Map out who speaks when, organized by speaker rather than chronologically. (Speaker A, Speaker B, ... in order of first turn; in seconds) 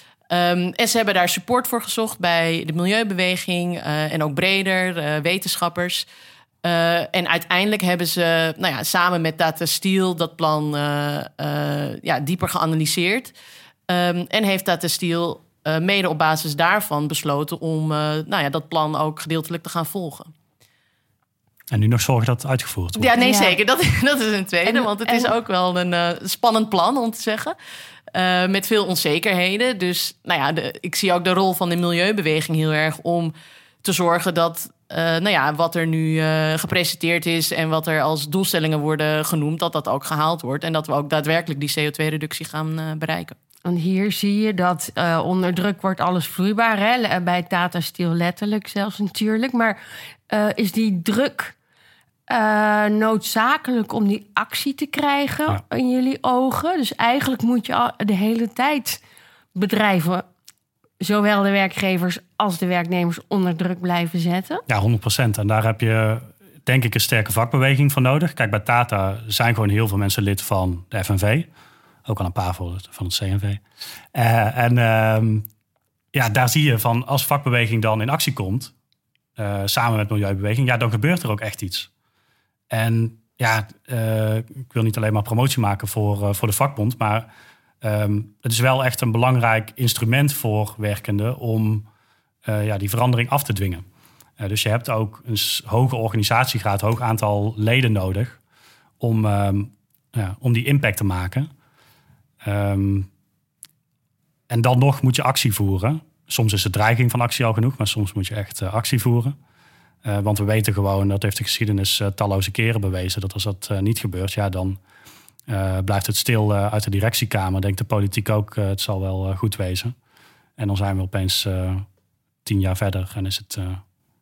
Speaker A: 0.3-6.0, 6.6-13.3, 13.9-20.3, 23.0-27.5, 28.1-33.3, 33.8-43.4
Speaker B: 21.7-23.1, 64.7-71.5, 72.0-73.6, 74.1-75.5, 76.1-78.7, 79.4-81.9, 82.7-87.3, 87.8-91.9, 92.4-93.8, 94.4-98.4, 99.0-101.5, 102.4-103.1, 104.5-109.3, 110.0-114.8, 115.5-119.9, 120.6-121.8, 122.4-123.8
Speaker C: 23.1-23.6, 24.6-25.3, 43.6-49.8, 50.3-51.5, 52.3-59.0, 59.5-60.2, 61.0-64.6